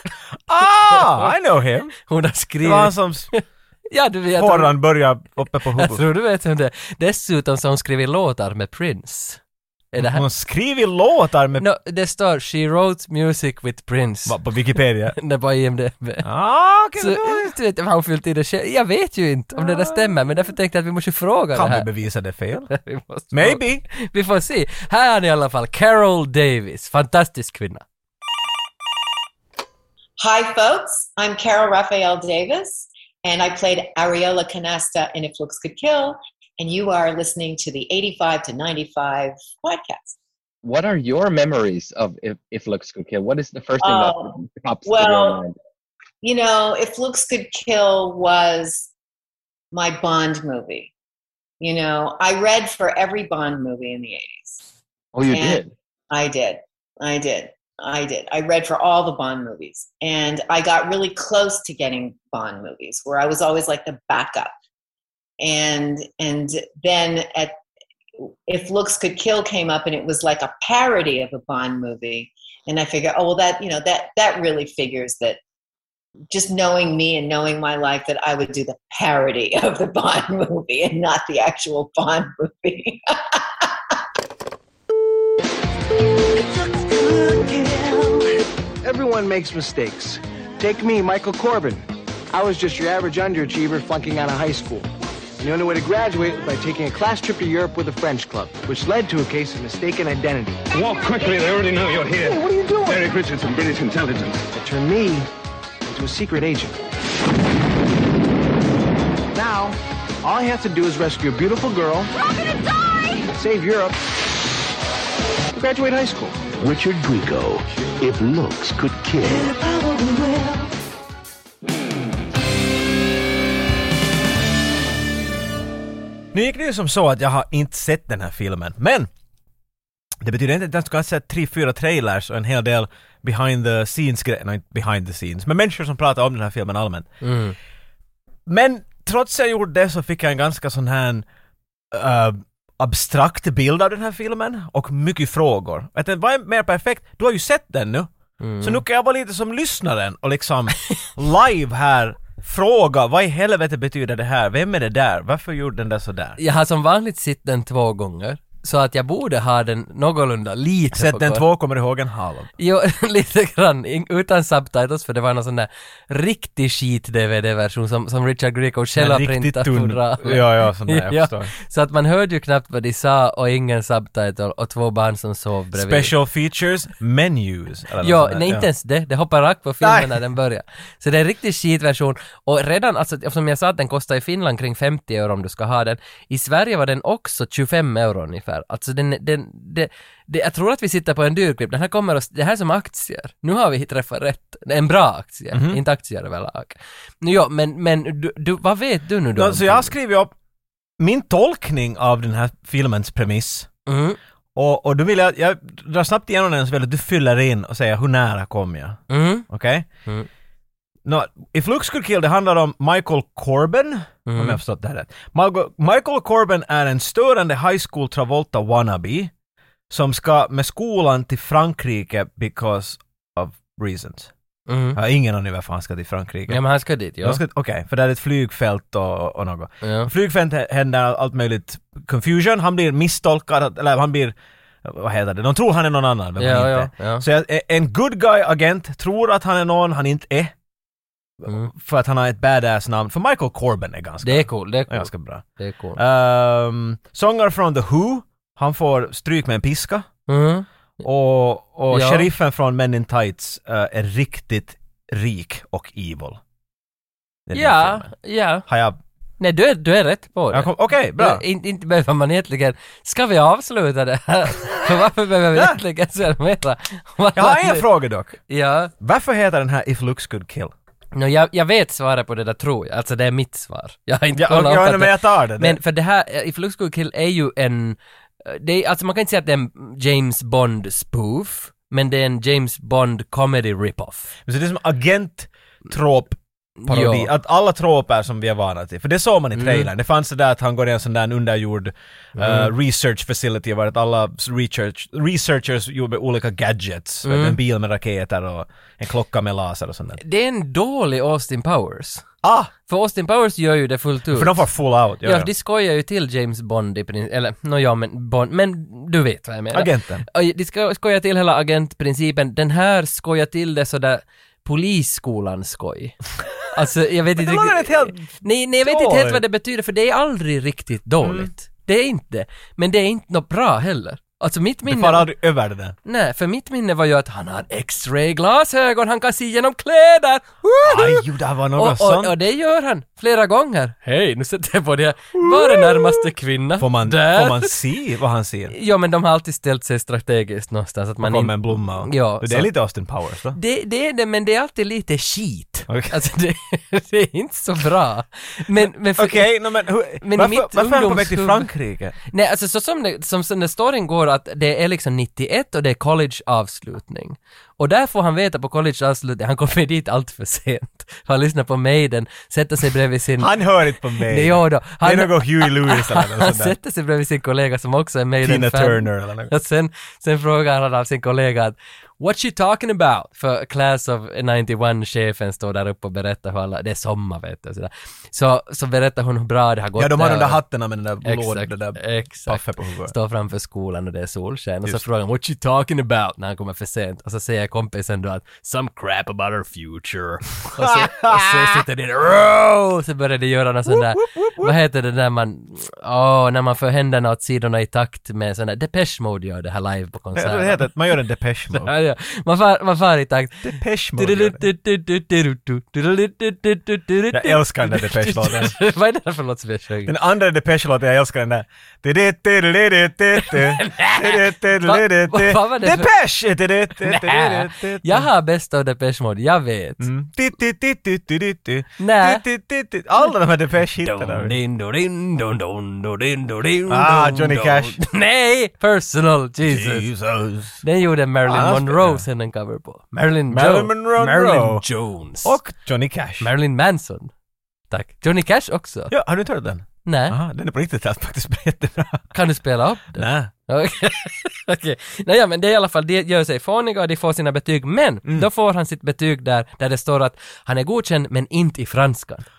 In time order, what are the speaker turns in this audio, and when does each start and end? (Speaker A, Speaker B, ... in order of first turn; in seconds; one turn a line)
Speaker A: 0.5-1.9
Speaker B: 0.9-1.3
Speaker B: 2.0-4.8
Speaker A: 2.6-3.3
Speaker A: 4.4-6.0
Speaker B: 5.7-9.4
Speaker B: 9.9-10.2
Speaker A: 10.0-11.7
Speaker B: 11.6-14.4
Speaker A: 14.3-15.2
Speaker B: 15.1-16.3
Speaker A: 16.2-17.5
Speaker B: 17.0-21.9
Speaker A: 19.6-20.2
Speaker A: 21.5-22.7
Speaker B: 22.7-27.8
Speaker A: 23.3-23.8
Speaker C: 30.2-40.2
Speaker D: 40.6-45.5
Speaker C: 43.8-45.4
Speaker C: 46.2-48.9
Speaker C: 49.7-50.9
Speaker C: 51.6-54.7
Speaker D: 55.1-55.7
Speaker C: 55.3-64.5
Speaker C: 65.4-67.5
Speaker C: 68.5-75.4
Speaker C: 76.3-83.9
Speaker E: 86.5-100.6
Speaker F: 100.7-104.4
Speaker E: 102.2-103.1
Speaker E: 104.5-105.3
Speaker E: 105.8-106.8
Speaker E: 109.3-112.1
Speaker E: 113.3-114.0
Speaker E: 115.5-116.5
Speaker G: 116.6-119.5
Speaker E: 119.7-120.7
Speaker A: 126.3-129.1
Speaker A: 130.2-137.1
Speaker B: 137.2-137.6
Speaker A: 138.5-141.3
Speaker A: 141.9-148.1
Speaker B: 148.4-148.8
Speaker A: 148.6-156.4
Speaker B: 156.4-161.4
Speaker A: 160.9-162.5
Speaker B: 162.6-176.1
Speaker A: 169.0-171.5
Speaker A: 175.7-178.7
Speaker B: 178.0-199.9
Speaker A: 179.8-180.2
Speaker A: 195.5-195.8
Speaker A: 199.3-200.3
Speaker A: 201.0-203.7
Speaker B: 203.9-204.2
Speaker A: 204.6-209.9
Speaker B: 209.1-209.5
Speaker A: 211.1-219.3
Speaker B: 214.3-214.6
Speaker A: 219.9-224.3
Speaker B: 224.7-225.0
Speaker A: 224.9-226.6
Speaker B: 226.5-227.4
Speaker A: 227.2-240.5
Speaker B: 229.8-230.1
Speaker B: 236.4-237.2
Speaker A: 241.4-245.4
Speaker B: 244.2-246.0
Speaker A: 245.9-250.1
Speaker B: 250.3-250.7
Speaker A: 251.0-256.4
Speaker B: 251.9-252.3
Speaker A: 257.5-258.1
Speaker B: 257.5-258.6
Speaker A: 258.7-259.0
Speaker B: 259.4-267.9
Speaker A: 260.5-261.4
Speaker A: 265.5-265.8
Speaker A: 267.4-268.4
Speaker B: 268.5-268.9
Speaker A: 269.0-270.7
Speaker B: 271.1-284.3
Speaker A: 274.3-275.8
Speaker A: 284.5-300.2
Speaker B: 286.8-287.3
Speaker B: 289.6-289.9
Speaker B: 292.4-292.7
Speaker B: 297.2-297.6
Speaker B: 300.2-302.2
Speaker A: 302.4-302.7
Speaker B: 302.9-304.7
Speaker A: 304.3-305.5
Speaker B: 305.2-316.2
Speaker A: 309.7-310.2
Speaker B: 316.7-325.3
Speaker A: 317.4-319.4
Speaker A: 321.2-321.5
Speaker A: 324.9-326.0
Speaker B: 326.1-337.8
Speaker A: 330.8-332.4
Speaker A: 335.4-338.7
Speaker B: 338.7-342.7
Speaker A: 341.2-343.6
Speaker B: 343.5-349.5
Speaker A: 345.9-346.2
Speaker A: 348.8-352.2
Speaker B: 350.2-351.7
Speaker B: 352.3-363.5
Speaker A: 363.4-366.8
Speaker B: 364.2-380.6
Speaker A: 368.4-369.5
Speaker A: 380.0-383.1
Speaker B: 381.2-400.9
Speaker A: 390.8-391.8
Speaker A: 393.9-394.7
Speaker A: 400.3-401.9
Speaker B: 401.7-410.1
Speaker A: 403.6-404.6
Speaker A: 407.3-408.8
Speaker A: 410.1-418.3
Speaker B: 413.4-416.1
Speaker B: 417.0-420.1
Speaker A: 420.0-424.6
Speaker B: 422.0-422.4
Speaker B: 424.0-430.1
Speaker A: 426.9-428.0
Speaker A: 429.6-430.8
Speaker B: 430.8-435.6
Speaker A: 431.4-432.2
Speaker A: 433.5-434.9
Speaker A: 435.4-436.5
Speaker B: 436.4-437.3
Speaker B: 437.9-439.1
Speaker A: 439.1-442.3
Speaker B: 440.1-440.4
Speaker B: 442.3-452.4
Speaker A: 443.1-443.5